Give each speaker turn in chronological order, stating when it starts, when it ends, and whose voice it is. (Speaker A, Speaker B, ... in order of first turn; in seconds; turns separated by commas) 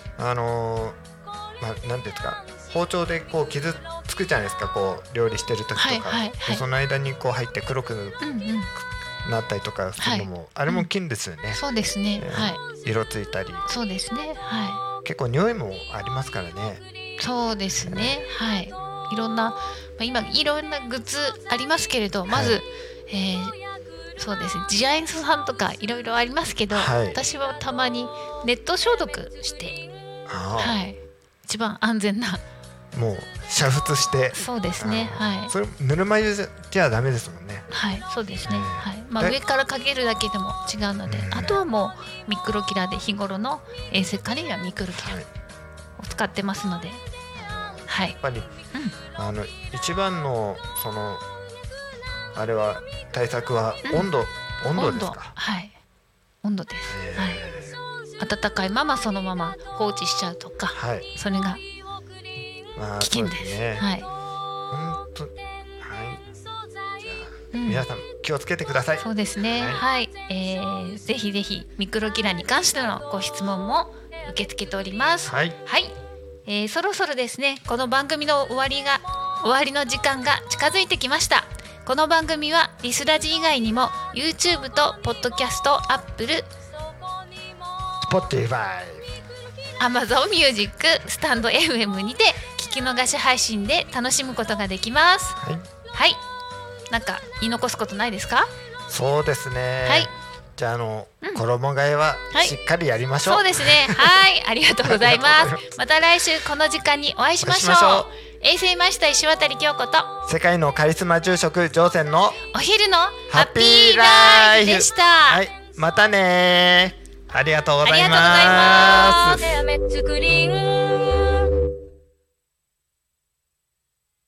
Speaker A: 0.2-1.0, Speaker A: 1.6-8.2, Speaker B: 5.8-6.6, Speaker B: 8.2-8.7, Speaker A: 9.2-11.6, Speaker B: 10.0-10.9, Speaker B: 11.5-12.6, Speaker A: 12.2-13.7, Speaker B: 13.7-14.8, Speaker A: 15.0-16.8, Speaker B: 17.2-23.6, Speaker A: 17.8-18.2, Speaker A: 22.3-22.6, Speaker B: 24.2-29.8, Speaker A: 26.7-27.2, Speaker A: 30.3-30.8, Speaker B: 30.6-32.4, Speaker A: 32.9-37.7, Speaker B: 34.4-35.5, Speaker B: 37.7-45.2, Speaker A: 38.4-39.4, Speaker A: 41.1-41.6, Speaker A: 44.9-45.3, Speaker B: 46.0-47.0, Speaker A: 47.4-48.5, Speaker B: 47.9-48.2, Speaker A: 49.2-51.2, Speaker A: 52.4-55.4, Speaker B: 53.9-54.1, Speaker B: 54.8-55.7, Speaker B: 56.4-57.4, Speaker A: 56.9-57.8, Speaker B: 58.2-61.6, Speaker A: 60.7-61.1, Speaker A: 62.8-63.9, Speaker B: 63.0-64.1, Speaker A: 64.7-66.2, Speaker A: 67.0-69.8, Speaker B: 67.5-67.9, Speaker B: 69.0-75.9, Speaker A: 75.3-75.6, Speaker B: 76.5-86.5, Speaker A: 88.0-89.1, Speaker B: 89.8-95.4, Speaker A: 95.4-95.7, Speaker B: 95.9-96.2, Speaker B: 96.9-98.5, Speaker A: 98.9-104.3, Speaker B: 99.8-100.1, Speaker B: 103.2-110.1, Speaker A: 104.8-105.7, Speaker A: 107.4-108.1, Speaker A: 110.2-112.4, Speaker B: 112.5-115.4, Speaker A: 113.3-119.6, Speaker B: 117.8-119.6, Speaker C: 119.3-121.5